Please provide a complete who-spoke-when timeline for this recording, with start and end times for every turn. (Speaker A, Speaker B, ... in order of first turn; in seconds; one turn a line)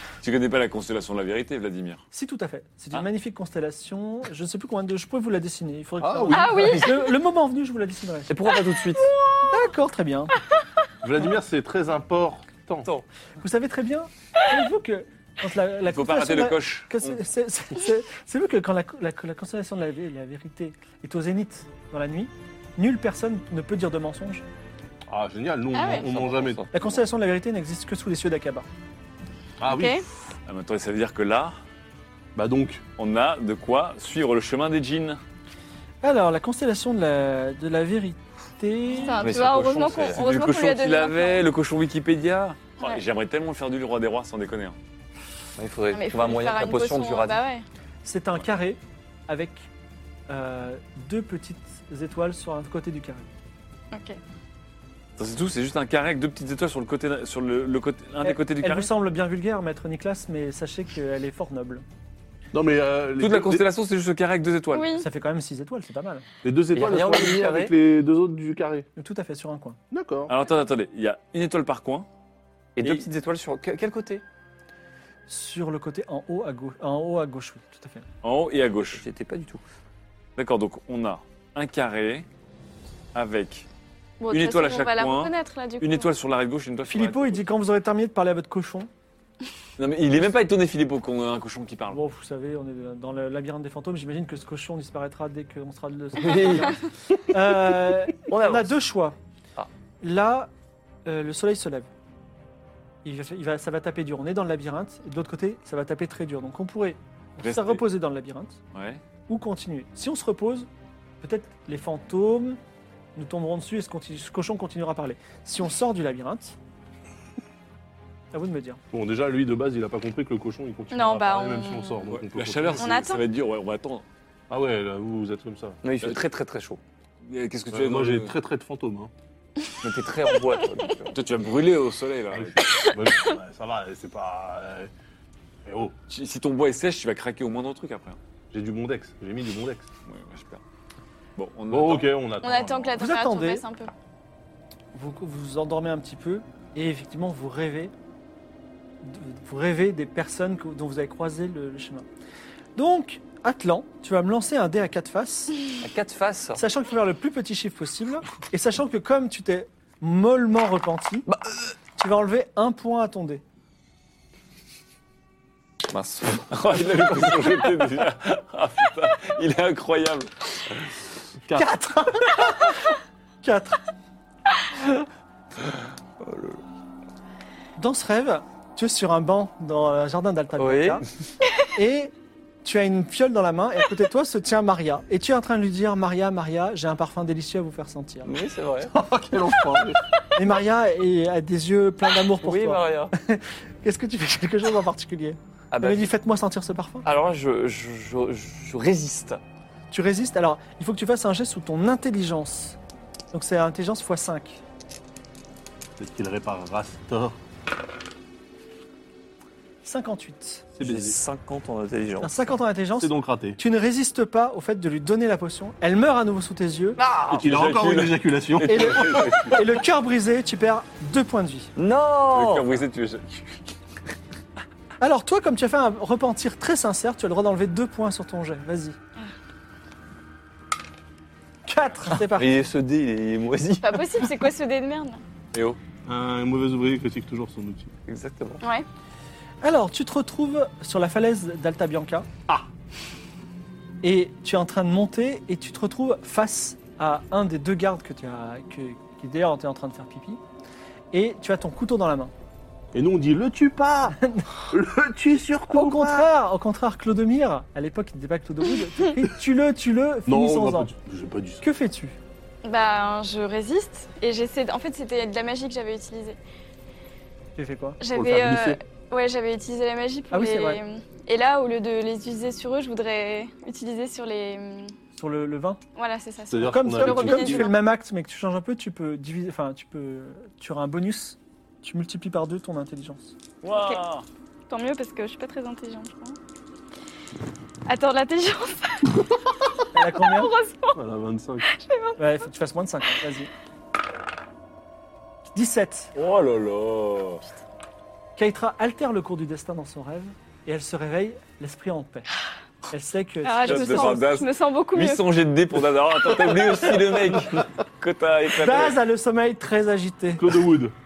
Speaker A: 0.2-2.0
Speaker B: 2.1-8.4
Speaker C: 6.0-6.8
Speaker D: 6.3-7.1
Speaker E: 6.5-6.8
Speaker E: 8.3-9.2
Speaker B: 9.4-10.3
Speaker C: 11.0-12.9
Speaker B: 13.4-24.4
Speaker A: 15.8-17.2
Speaker C: 25.1-26.6
Speaker D: 25.7-26.1
Speaker E: 26.1-26.9
Speaker B: 26.7-28.6
Speaker C: 29.6-30.0
Speaker D: 29.7-30.0
Speaker A: 30.4-31.6
Speaker C: 32.3-32.8
Speaker A: 33.0-35.2
Speaker B: 36.0-39.2
Speaker D: 39.0-41.4
Speaker A: 39.2-44.8
Speaker E: 39.2-40.2
Speaker E: 45.6-47.4
Speaker D: 45.9-47.6
Speaker B: 48.0-49.7
Speaker B: 50.3-53.3
Speaker D: 53.9-54.2
Speaker A: 55.2-58.9
Speaker B: 58.2-61.8
Speaker C: 62.5-63.6
Speaker A: 63.2-65.0
Speaker D: 64.7-65.1
Speaker B: 65.0-66.2
Speaker C: 66.4-68.9
Speaker E: 66.7-67.7
Speaker B: 69.0-69.8
Speaker C: 69.9-70.3
Speaker A: 70.3-72.1
Speaker E: 72.8-74.2
Speaker B: 75.3-78.0
Speaker A: 78.2-79.0
Speaker E: 78.9-79.6
Speaker A: 80.4-82.2
Speaker A: 83.1-83.7
Speaker D: 84.2-86.1
Speaker A: 84.3-87.4
Speaker B: 86.9-88.9
Speaker A: 89.8-92.0
Speaker B: 91.9-99.2
Speaker E: 96.2-97.2
Speaker E: 98.2-98.7
Speaker B: 100.0-100.5
Speaker B: 101.0-101.9
Speaker B: 103.0-108.6
Speaker A: 107.4-107.8
Speaker A: 108.7-109.0
Speaker B: 109.3-110.7
Speaker B: 111.2-112.6
Speaker B: 113.2-116.5
Speaker B: 118.3-118.8
Speaker C: 118.9-123.0
Speaker D: 120.9-122.1
Speaker A: 122.1-124.0
Speaker D: 122.8-123.2
Speaker C: 124.5-125.8
Speaker E: 125.8-126.8
Speaker A: 127.2-128.3
Speaker C: 127.7-129.1
Speaker E: 129.8-131.1
Speaker A: 131.1-132.7
Speaker C: 132.3-134.9
Speaker C: 135.6-135.9
Speaker A: 136.1-138.2
Speaker C: 138.5-139.9
Speaker A: 140.1-140.6
Speaker A: 141.4-142.2
Speaker C: 141.7-143.0
Speaker D: 142.4-143.9
Speaker B: 143.0-143.6
Speaker B: 144.9-147.9
Speaker B: 149.0-152.1
Speaker B: 152.8-155.6
Speaker E: 155.8-156.6
Speaker B: 156.6-161.3
Speaker E: 161.3-161.5
Speaker B: 162.0-163.4
Speaker E: 165.9-166.6
Speaker A: 166.5-170.7
Speaker E: 167.2-167.6
Speaker B: 171.5-172.8
Speaker B: 173.4-173.8
Speaker E: 176.2-176.6
Speaker B: 177.8-181.0
Speaker E: 180.6-181.0
Speaker B: 181.7-182.1
Speaker B: 182.6-188.3
Speaker E: 188.2-190.0
Speaker C: 188.9-190.0
Speaker B: 190.3-197.1
Speaker E: 192.4-193.1
Speaker E: 195.7-196.1
Speaker E: 197.0-199.4
Speaker B: 199.9-202.8
Speaker B: 203.3-204.6
Speaker C: 206.0-207.4
Speaker B: 209.8-210.7
Speaker C: 210.8-211.2
Speaker E: 210.8-212.3
Speaker B: 212.2-217.0
Speaker C: 213.0-213.6
Speaker E: 217.0-217.4
Speaker C: 217.3-219.4
Speaker A: 217.3-219.6
Speaker B: 218.7-221.7
Speaker E: 221.8-222.7
Speaker A: 222.3-223.5
Speaker B: 225.0-229.0
Speaker B: 231.7-232.6
Speaker E: 232.3-234.3
Speaker D: 233.8-235.2
Speaker C: 236.0-237.9
Speaker E: 238.1-238.6
Speaker D: 238.6-238.8
Speaker B: 239.6-242.3
Speaker B: 244.0-250.4
Speaker B: 251.1-252.3
Speaker C: 252.9-254.2
Speaker C: 254.7-256.3
Speaker B: 255.7-260.9
Speaker C: 260.3-261.6
Speaker B: 261.6-262.2
Speaker D: 262.6-266.4
Speaker B: 267.6-268.0
Speaker D: 268.0-274.9
Speaker C: 268.1-268.8
Speaker B: 270.3-270.8
Speaker B: 275.1-275.8
Speaker D: 275.9-277.8
Speaker C: 276.5-277.7
Speaker B: 276.6-283.3
Speaker A: 283.6-284.2
Speaker D: 283.7-284.0
Speaker D: 284.7-286.4
Speaker D: 287.9-289.2
Speaker B: 289.9-290.5
Speaker D: 290.0-291.0
Speaker C: 290.9-291.6
Speaker D: 291.7-292.2
Speaker B: 292.2-293.5
Speaker B: 295.5-296.1
Speaker A: 296.1-297.4
Speaker B: 298.4-302.3
Speaker B: 302.9-304.2
Speaker D: 303.4-305.2
Speaker A: 303.6-309.0
Speaker B: 308.5-310.5
Speaker C: 310.4-310.9